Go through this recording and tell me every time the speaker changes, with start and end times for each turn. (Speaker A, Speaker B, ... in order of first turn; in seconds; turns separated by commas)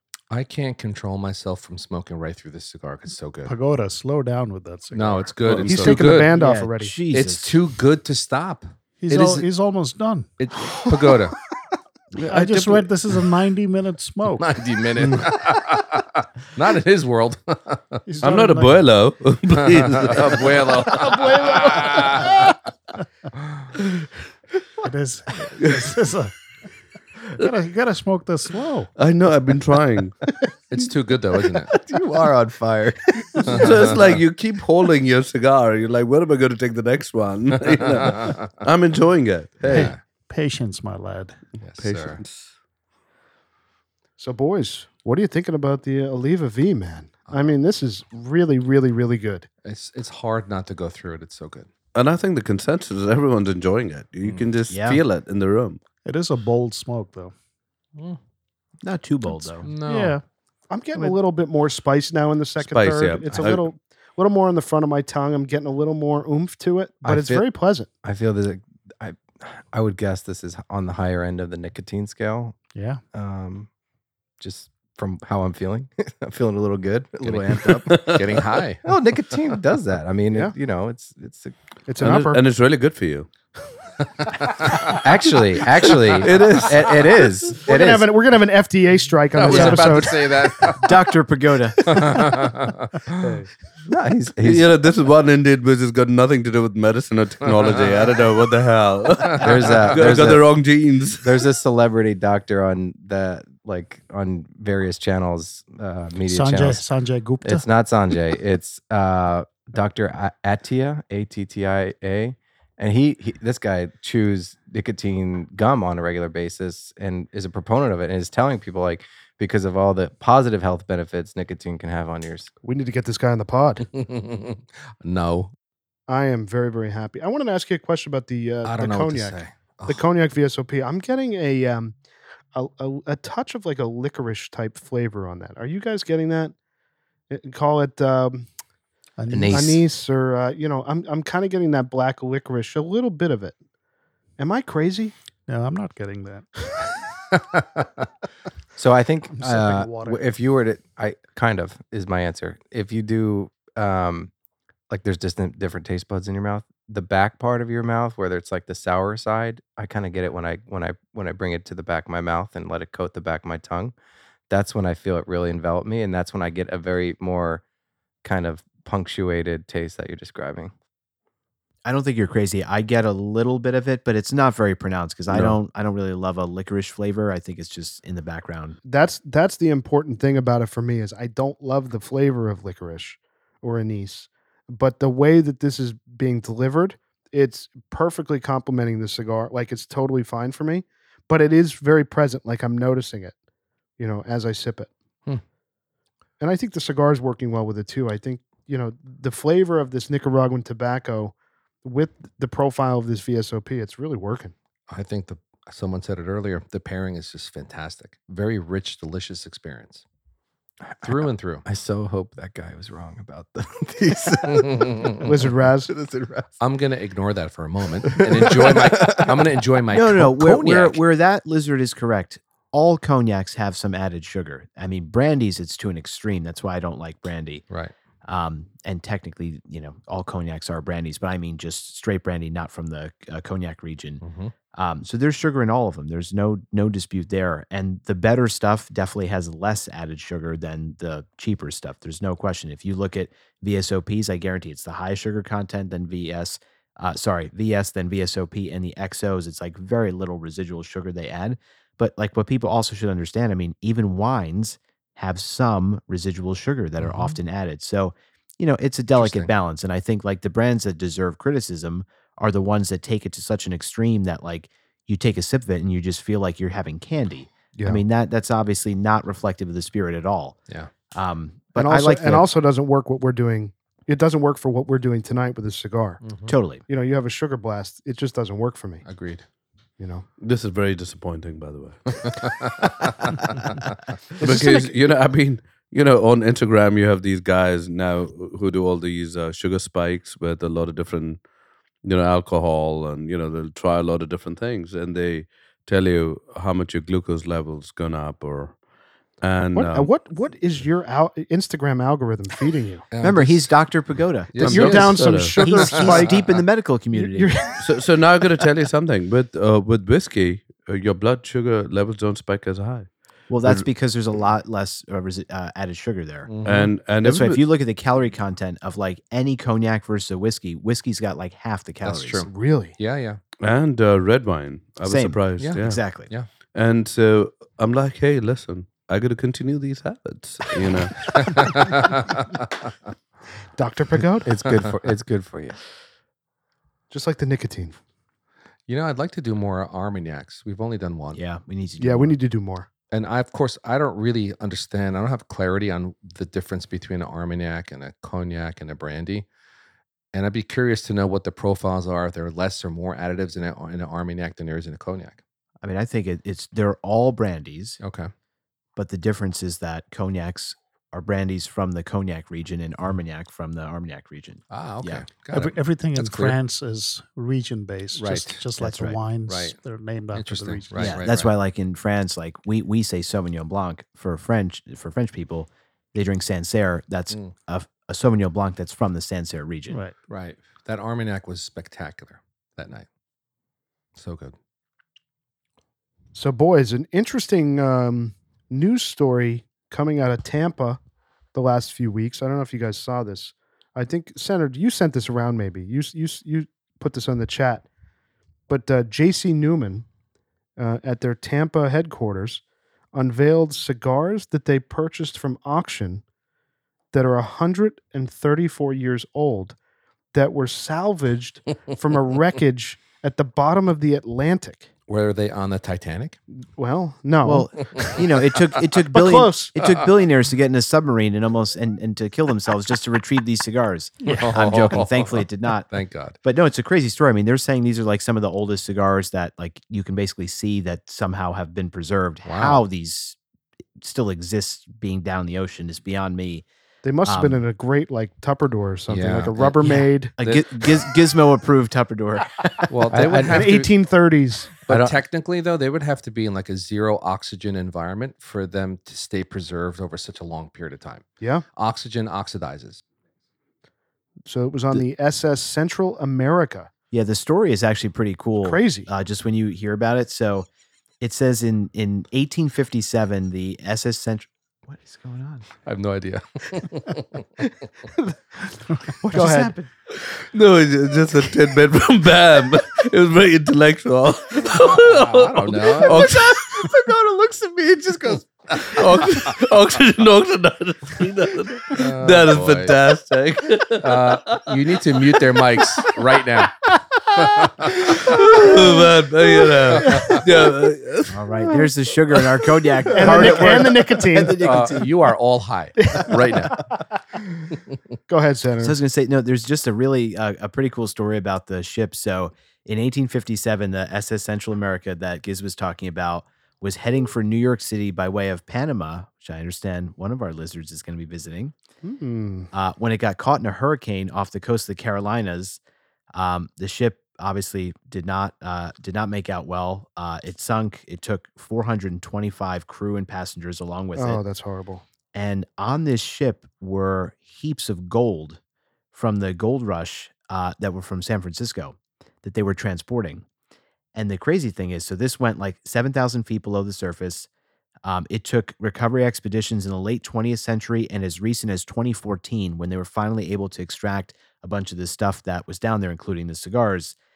Speaker A: 0.3-3.5, Speaker B: 3.4-5.5, Speaker A: 4.9-6.3, Speaker C: 5.4-6.2, Speaker D: 5.6-6.9, Speaker E: 6.3-7.6, Speaker A: 7.1-9.5, Speaker B: 9.0-10.3, Speaker A: 10.4-11.4, Speaker B: 12.2-14.6, Speaker A: 14.4-18.0, Speaker B: 18.1-18.9, Speaker C: 18.2-21.1, Speaker A: 19.6-22.5, Speaker B: 21.1-22.2, Speaker B: 24.8-26.3, Speaker C: 25.6-25.9, Speaker B: 27.4-28.9, Speaker C: 29.0-30.2, Speaker A: 30.7-31.7, Speaker F: 31.8-33.7, Speaker A: 33.5-34.0, Speaker C: 33.5-39.9, Speaker A: 37.7-38.5, Speaker A: 39.6-40.0, Speaker B: 39.6-41.4, Speaker A: 41.6-42.2, Speaker C: 41.7-42.5, Speaker D: 44.2-49.5, Speaker A: 49.6-51.7, Speaker C: 51.9-55.8, Speaker E: 54.7-55.0, Speaker B: 56.0-57.3, Speaker E: 58.8-59.7, Speaker B: 59.4-60.2, Speaker A: 59.6-60.2, Speaker D: 60.7-67.9, Speaker C: 62.6-63.6, Speaker F: 67.0-67.4, Speaker F: 68.0-72.6, Speaker B: 72.7-73.0, Speaker F: 73.1-73.7, Speaker F: 74.4-78.2, Speaker C: 77.7-78.3, Speaker A: 78.0-78.8, Speaker F: 78.8-81.5, Speaker D: 81.9-82.4, Speaker C: 82.0-83.3, Speaker A: 84.2-85.0, Speaker F: 84.8-88.1, Speaker A: 85.9-86.2, Speaker C: 86.2-87.3, Speaker D: 87.6-90.3, Speaker A: 89.3-90.9, Speaker E: 90.7-92.2, Speaker A: 91.8-92.9, Speaker F: 93.9-94.7, Speaker C: 94.4-101.3, Speaker A: 97.5-98.1, Speaker A: 99.3-99.9, Speaker F: 99.4-100.6, Speaker F: 101.2-106.9, Speaker B: 106.3-107.7, Speaker F: 107.4-122.5, Speaker D: 122.6-123.8, Speaker A: 123.9-125.5, Speaker D: 126.1-131.9, Speaker A: 128.6-130.0, Speaker D: 132.5-136.5, Speaker D: 137.3-138.5, Speaker B: 139.2-139.8, Speaker F: 139.3-139.8, Speaker D: 139.5-143.5, Speaker D: 144.4-145.1, Speaker B: 145.5-146.5, Speaker F: 148.8-154.3, Speaker B: 149.3-150.2, Speaker F: 154.9-163.9, Speaker F: 164.5-167.6, Speaker F: 168.2-170.7, Speaker E: 171.8-178.8, Speaker D: 178.8-193.3, Speaker D: 194.0-194.9, Speaker D: 196.4-204.5, Speaker A: 204.9-210.0, Speaker F: 210.8-216.6, Speaker A: 211.0-211.6, Speaker A: 214.5-215.2, Speaker D: 215.2-215.9, Speaker A: 216.6-221.0, Speaker F: 218.0-219.5, Speaker E: 219.9-227.6, Speaker E: 228.2-234.2, Speaker A: 234.2-234.5, Speaker E: 234.7-270.6, Speaker A: 257.0-257.4, Speaker A: 259.1-259.5, Speaker D: 267.7-268.0, Speaker E: 271.1-272.4, Speaker D: 271.8-276.2, Speaker A: 276.2-276.5, Speaker E: 276.5-276.8, Speaker D: 276.9-279.0, Speaker A: 279.0-279.4, Speaker D: 280.0-280.2, Speaker C: 280.4-282.7, Speaker A: 282.2-283.8, Speaker D: 284.4-284.9, Speaker C: 284.4-291.4, Speaker C: 292.0-298.8, Speaker C: 299.4-300.1, Speaker D: 299.7-303.0, Speaker A: 303.1-303.7, Speaker E: 303.2-305.0, Speaker A: 304.5-306.6, Speaker C: 304.6-306.1, Speaker D: 304.6-306.4, Speaker E: 305.6-307.8, Speaker D: 307.1-307.8, Speaker C: 307.8-313.1, Speaker E: 313.5-316.5, Speaker C: 313.6-313.9, Speaker A: 316.5-316.9, Speaker C: 316.6-317.6, Speaker E: 317.2-322.5, Speaker A: 322.0-323.4, Speaker D: 322.5-323.0, Speaker C: 323.6-326.0, Speaker E: 325.0-326.3, Speaker A: 325.6-326.5, Speaker C: 326.7-332.0, Speaker A: 331.2-332.6, Speaker D: 333.8-334.5, Speaker F: 334.4-335.8, Speaker D: 337.1-338.0, Speaker A: 338.9-341.4, Speaker E: 341.3-342.3, Speaker D: 342.0-342.9, Speaker A: 343.1-349.4, Speaker A: 350.3-355.4, Speaker E: 355.8-358.0, Speaker A: 358.0-358.3, Speaker E: 358.9-365.3, Speaker A: 364.7-366.6, Speaker B: 365.5-371.3, Speaker A: 368.1-368.6, Speaker E: 368.8-369.2, Speaker A: 369.5-369.8, Speaker A: 370.3-371.5, Speaker E: 370.9-380.0, Speaker B: 379.9-380.1, Speaker A: 380.3-383.1, Speaker A: 384.1-384.5, Speaker D: 386.3-391.0, Speaker D: 391.5-397.8, Speaker D: 398.7-400.1, Speaker D: 400.8-402.6, Speaker D: 403.1-406.2, Speaker D: 407.1-409.8, Speaker D: 410.3-414.9, Speaker A: 415.1-416.4, Speaker D: 416.8-417.7, Speaker E: 417.4-425.9, Speaker D: 419.1-419.7, Speaker A: 424.2-426.4, Speaker E: 426.4-433.4, Speaker A: 432.4-432.8, Speaker E: 434.0-436.6, Speaker D: 437.0-440.3, Speaker E: 437.2-437.6, Speaker A: 439.1-440.8, Speaker E: 439.8-443.6, Speaker A: 442.9-443.9, Speaker F: 443.1-443.6, Speaker D: 443.5-444.7, Speaker A: 444.9-451.2, Speaker A: 451.8-453.0, Speaker D: 454.4-456.9, Speaker E: 457.1-460.7, Speaker D: 458.6-459.1, Speaker E: 461.2-465.7, Speaker A: 465.8-467.4, Speaker D: 468.1-468.7, Speaker E: 469.2-469.9, Speaker D: 469.3-469.7, Speaker C: 470.2-477.1, Speaker A: 474.7-476.3, Speaker E: 476.2-478.5, Speaker C: 478.7-486.7, Speaker A: 481.9-482.9, Speaker A: 484.0-486.7, Speaker C: 487.3-491.9, Speaker A: 487.4-488.7, Speaker A: 490.0-490.4, Speaker E: 491.3-495.1, Speaker D: 493.1-494.6, Speaker B: 493.4-493.8, Speaker A: 494.6-496.8, Speaker D: 496.0-496.3, Speaker D: 498.3-498.9, Speaker E: 498.8-511.7, Speaker D: 512.0-512.7, Speaker E: 512.7-515.8, Speaker E: 516.3-524.4, Speaker D: 524.1-525.0, Speaker E: 525.3-528.6, Speaker E: 529.1-533.4, Speaker E: 534.1-537.5, Speaker E: 538.0-547.1